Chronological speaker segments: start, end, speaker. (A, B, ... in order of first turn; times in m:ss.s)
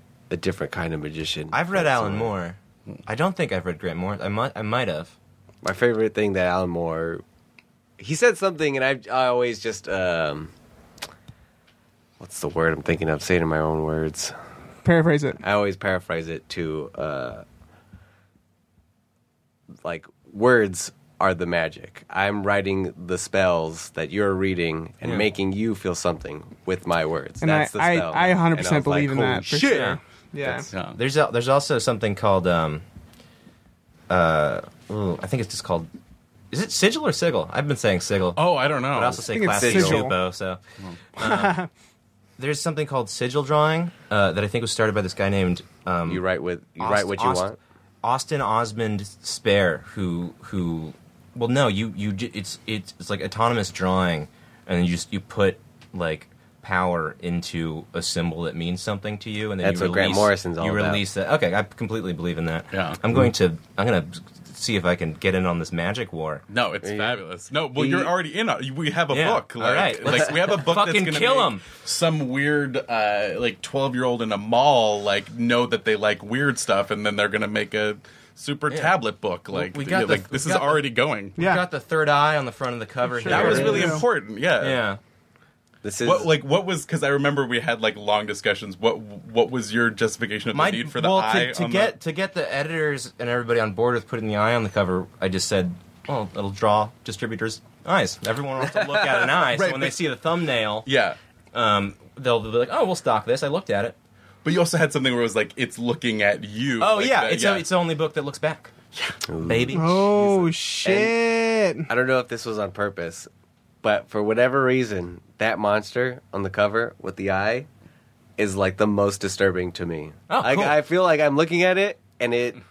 0:00.3-0:02.3 A
0:01.5-0:05.1 B
0:05.6-0:07.2 A
0:08.0-0:10.5 A
0:12.2-0:14.3 A
0:14.8-0:15.4 C
0:15.4-0:17.4 A
0:19.8-0:29.6 A
0:27.4-0:30.7 C
0:29.4-0:32.8 B
0:30.7-0:31.0 D
0:34.1-0:35.9 B
0:36.5-0:40.6 B
0:38.4-0:39.3 D
0:39.3-0:40.2 C
0:39.5-0:40.1 A
0:41.2-0:41.6 B
0:41.2-0:41.7 C
0:42.4-0:46.2 B
0:46.1-0:47.6 A
0:46.8-0:47.4 B
0:48.0-1:06.4 B
0:59.6-1:01.0 A
1:02.7-1:03.0 D
1:06.5-1:21.4 D
1:06.8-1:07.2 A
1:07.8-1:08.1 A
1:09.1-1:11.6 B
1:18.7-1:18.9 B
1:19.5-1:20.8 B
1:21.4-1:24.0 B
1:21.4-1:21.6 C
1:23.2-1:24.0 C
1:23.2-1:24.8 D
1:23.4-1:23.7 A
1:24.6-1:25.0 B
1:25.8-1:26.3 A
1:26.0-1:31.9 D
1:30.5-1:40.9 B
1:39.4-1:40.0 D
1:40.8-1:41.2 D
1:41.5-1:44.0 B
1:44.4-1:47.6 D
1:46.8-1:48.7 B
1:49.3-1:49.8 A
1:49.4-1:50.6 B
1:49.7-1:51.9 C
1:50.8-1:51.1 A
1:51.9-1:53.3 A
1:53.8-1:57.7 A
1:58.4-2:02.6 A
2:00.3-2:00.8 B